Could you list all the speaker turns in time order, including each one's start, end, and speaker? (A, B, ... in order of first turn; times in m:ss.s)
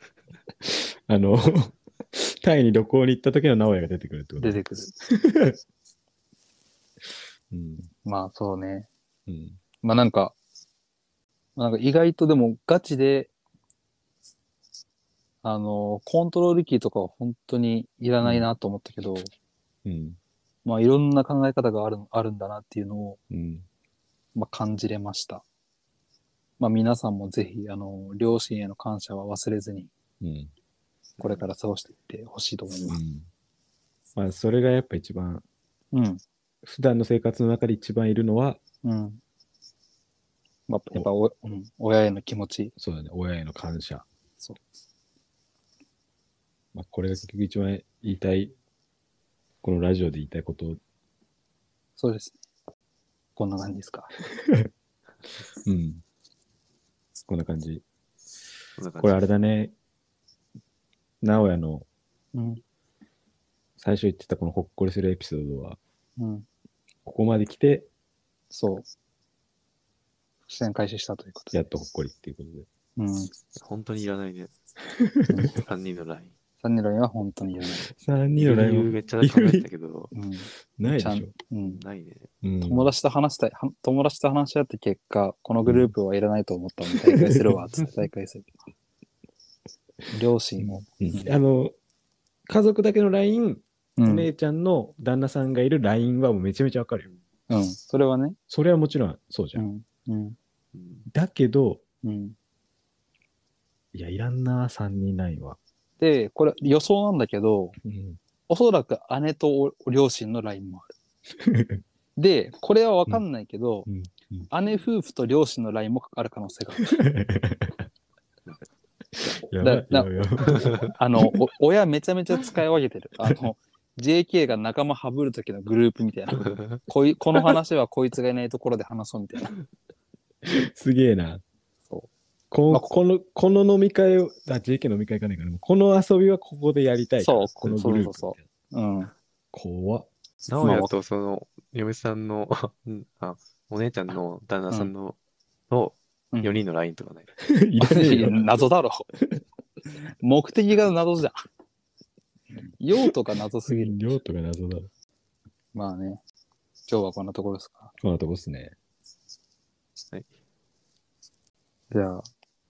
0:00.6-0:04.6 A
0:04.4-0:04.9 B
0:05.1-0:05.6 A
0:07.5-0:07.9 A
0:08.0-0:08.9 B
0:09.3-0:09.6 A
0:09.8-0:10.4 B
0:11.6-0:13.3 B
0:15.4-0:19.3 B
0:18.2-0:18.5 A
0:19.8-0:20.2 A
0:20.6-0:23.2 B
0:23.3-0:23.6 A
0:24.3-0:25.4 B
0:26.6-0:29.9 B
0:30.2-0:30.5 A
0:31.2-0:31.5 C
0:31.2-0:33.0 B
0:32.9-0:33.3 A
0:34.2-0:35.4 A
0:35.9-0:36.2 B
0:36.6-0:38.6 A
0:38.8-0:39.2 B
0:40.7-0:42.7 B
0:42.8-0:44.0 A
0:46.7-0:48.5 A
0:49.6-0:50.8 A
0:52.0-0:52.4 B
0:53.4-0:54.1 B
0:55.6-0:56.0 A
0:57.2-0:57.8 A
0:58.8-0:59.3 C
0:59.0-0:59.7 A
1:01.2-1:01.8 A
1:02.3-1:02.6 B
1:03.8-1:05.8 A
1:06.2-1:06.4 B
1:07.0-1:07.9 A
1:08.5-1:08.8 B
1:10.5-1:11.6 B
1:11.5-1:12.7 A
1:13.0-1:13.3 B
1:13.6-1:14.5 C
1:15.0-1:15.4 A
1:15.3-1:15.6 B
1:15.5-1:16.3 C
1:16.6-1:17.9 B
1:17.8-1:19.6 A
1:18.4-1:20.1 C
1:20.1-1:21.8 B
1:20.8-1:21.3 A
1:21.6-1:22.3 C
1:22.4-1:22.9 A
1:22.6-1:28.5 B
1:25.6-1:25.9 A
1:26.9-1:27.5 A
1:30.1-1:31.3 B
1:30.6-1:31.7 A
1:32.5-1:37.1 A
1:34.0-1:34.3 B
1:37.5-1:38.4 B
1:38.5-1:39.6 A
1:39.6-1:40.4 B
1:40.7-1:41.0 C
1:41.1-1:41.8 A
1:42.0-1:42.4 B
1:43.9-1:45.6 A
1:46.0-1:47.8 B
1:47.8-1:48.2 A
1:48.5-1:50.9 B
1:51.4-1:51.8 A
1:52.2-1:53.9 B
1:53.9-1:54.5 A
1:54.5-1:57.0 B
1:57.0-1:57.8 A
1:59.2-2:01.4 A
1:59.6-2:00.1 B
2:00.6-2:00.9 C
2:00.8-2:09.5 B
2:10.4-2:11.4 A
2:12.5-2:18.4 A
2:17.2-2:19.1 B
2:19.5-2:20.1 A
2:20.5-2:25.2 C
2:20.6-2:20.9 B
2:25.7-2:27.3 C
2:26.3-2:26.6 B
2:27.4-2:28.6 A
2:27.8-2:29.0 B
2:30.1-2:31.3 B
2:32.8-2:34.2 B
2:33.7-2:34.9 A
2:35.7-2:36.2 B
2:36.9-2:37.9 B
2:38.0-2:38.7 A
2:41.9-2:42.2 B